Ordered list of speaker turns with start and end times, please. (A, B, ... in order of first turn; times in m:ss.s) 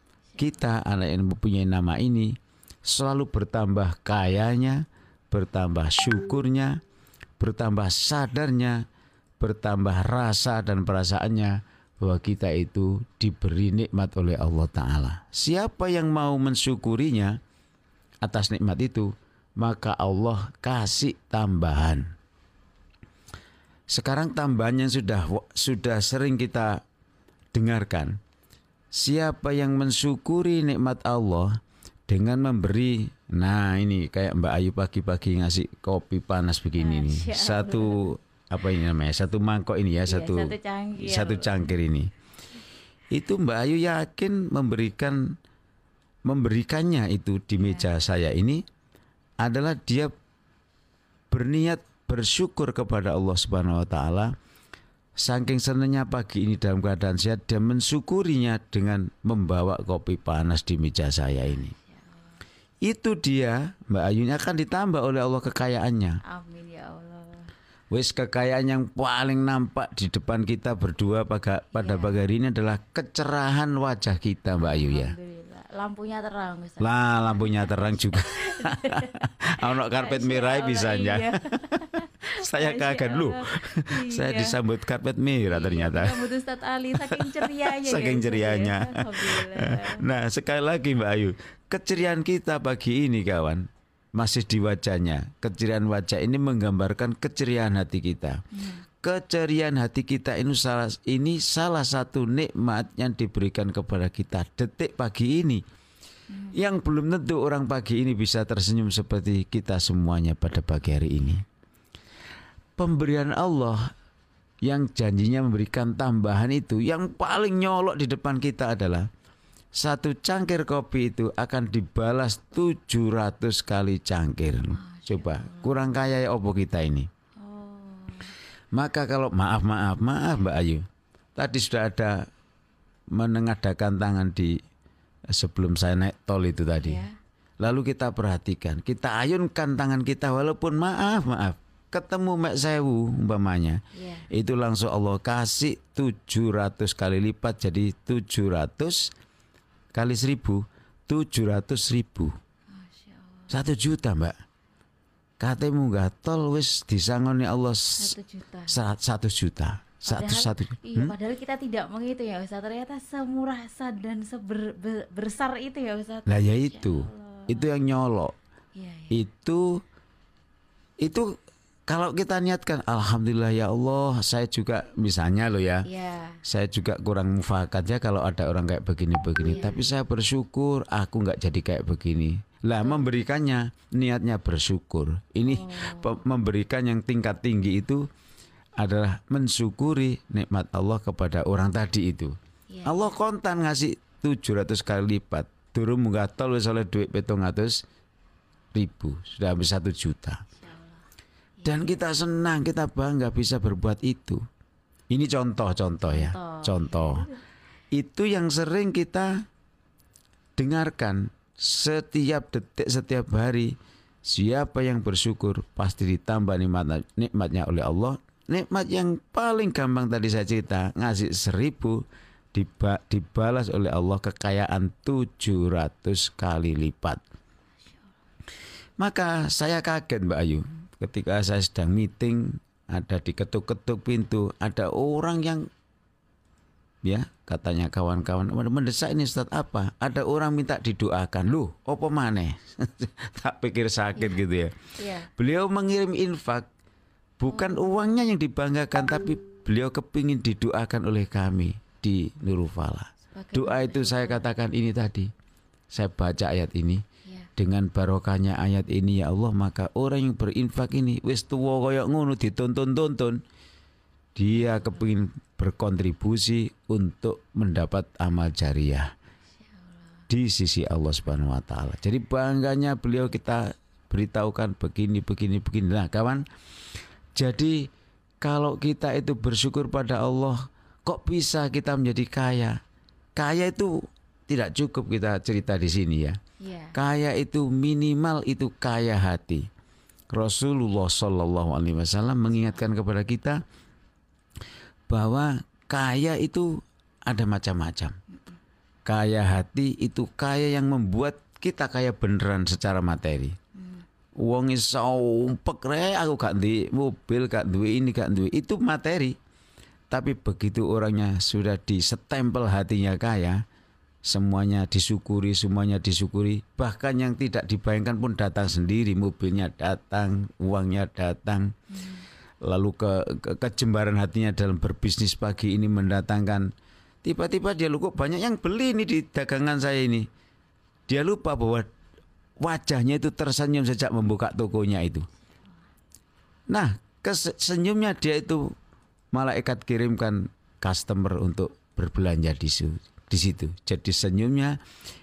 0:00.4-0:06.8 A
0:07.4-0:08.8 A
0:09.4-0:17.4 A
0:18.2-0:22.1 A
0:23.9-0:26.8 A
0:27.5-0:28.2 A
0:28.9-0:42.1 A
0:36.8-0:38.1 B
0:40.0-0:41.7 B
0:43.1-0:45.4 A
0:46.3-0:48.6 A
0:47.6-0:47.9 B
0:49.4-0:50.1 A
0:51.3-0:54.3 A
0:55.2-1:01.7 A
1:01.5-1:02.1 B
1:02.8-1:06.2 A
1:06.2-1:07.5 B
1:07.9-1:15.1 A
1:11.7-1:12.2 B
1:14.6-1:24.6 B
1:16.8-1:26.2 A
1:25.5-1:30.0 B
1:26.9-1:38.4 A
1:38.5-1:38.8 B
1:39.0-1:45.6 A
1:46.3-1:46.6 B
1:46.5-1:51.4 A
1:52.8-1:53.9 A
1:54.6-1:59.1 A
1:59.7-2:07.1 A
2:04.7-2:05.8 B
2:07.4-2:08.3 B
2:08.7-2:10.8 A
2:11.4-2:12.3 A
2:13.1-2:14.6 A
2:15.3-2:17.0 A
2:16.8-2:17.1 B
2:17.6-2:29.1 A
2:24.0-2:24.3 B
2:29.9-2:32.3 A
2:32.7-2:33.6 B
2:33.5-2:34.4 A
2:35.4-2:38.1 A
2:38.0-2:38.8 B
2:38.7-2:41.1 A
2:40.0-2:47.7 B
2:46.3-2:48.3 A
2:48.7-2:49.2 B
2:49.1-2:49.6 A
2:51.0-2:51.3 A
2:51.9-2:55.9 A
2:55.8-2:56.4 B
2:56.4-3:08.0 A
2:59.4-2:59.8 B
3:02.8-3:03.1 B
3:05.4-3:06.2 B
3:08.8-3:17.8 A
3:12.7-3:13.2 B
3:18.7-3:20.4 A
3:20.6-3:21.0 B
3:21.6-3:22.0 B
3:21.6-3:24.4 A
3:25.1-3:27.3 A
3:26.0-3:27.4 B
3:27.9-3:29.4 A
3:30.6-3:47.2 A
3:49.0-3:55.6 A
3:57.0-4:04.8 A
4:04.2-4:04.4 B
4:05.0-4:05.3 B
4:05.4-4:06.7 A
4:07.4-4:15.3 A
4:07.5-4:07.9 B
4:13.3-4:14.5 B
4:15.9-4:17.0 A
4:17.6-4:23.4 A
4:24.4-4:29.1 A
4:24.6-4:25.0 B
4:30.3-4:36.4 A
4:37.4-4:37.9 A
4:38.4-4:42.8 A
4:43.4-4:46.4 A
4:46.6-4:47.0 B
4:46.9-4:49.7 A
4:50.3-4:53.6 A
4:52.5-4:52.8 B
4:55.1-4:58.2 A
4:59.1-5:03.6 A
5:04.4-5:09.4 A
5:10.1-5:13.6 A
5:14.2-5:21.7 A
5:21.9-5:22.2 B
5:22.6-5:26.7 A
5:27.2-5:30.3 A
5:31.1-5:31.9 A
5:32.6-5:35.3 A
5:36.7-5:38.7 A
5:39.3-5:44.8 A